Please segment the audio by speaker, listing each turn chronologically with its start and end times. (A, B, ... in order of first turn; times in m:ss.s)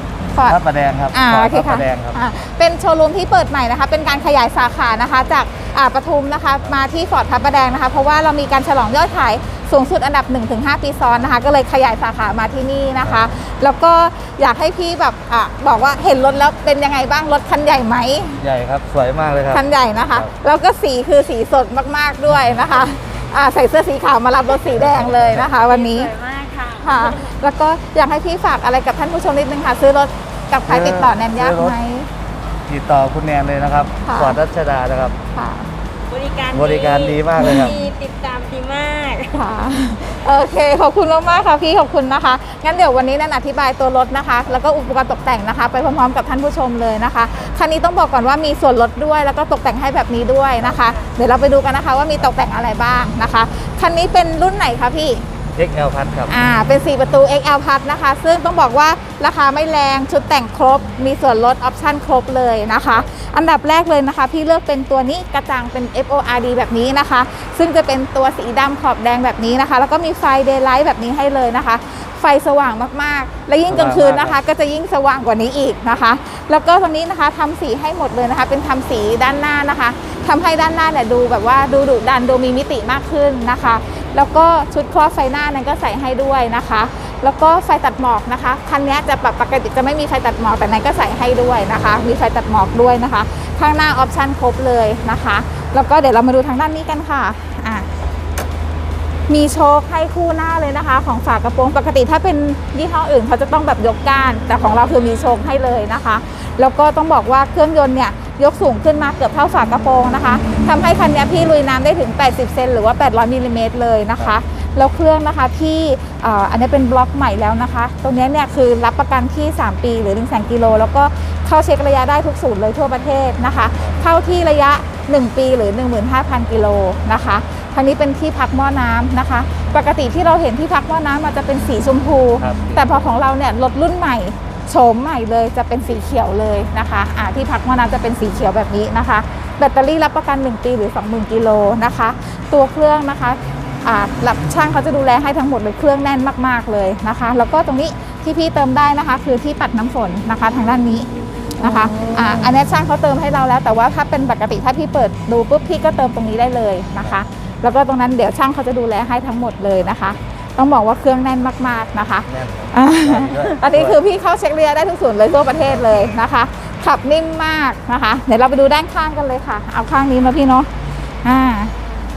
0:00.3-0:00.6 A
0:00.4-0:02.2 B
0:01.1-0:18.4 A
0:18.4-0:20.3 B
0:19.5-0:26.1 A
0:24.8-0:25.5 B
0:25.5-0:27.4 C
0:26.8-0:32.1 A
0:30.7-0:31.8 B
0:32.7-0:35.2 B
0:34.0-0:34.4 A
0:35.3-0:35.7 A
0:36.1-0:39.4 C
0:36.5-0:37.8 B
0:37.4-0:37.7 A
0:39.3-0:55.2 A
0:50.8-0:51.1 C
0:55.6-0:56.4 B
0:56.3-1:37.9 A
1:13.7-1:14.4 B
1:39.3-2:50.7 A
2:12.4-2:13.1 B
2:31.6-2:32.5 C
2:42.3-2:44.0 B
2:51.2-2:51.7 A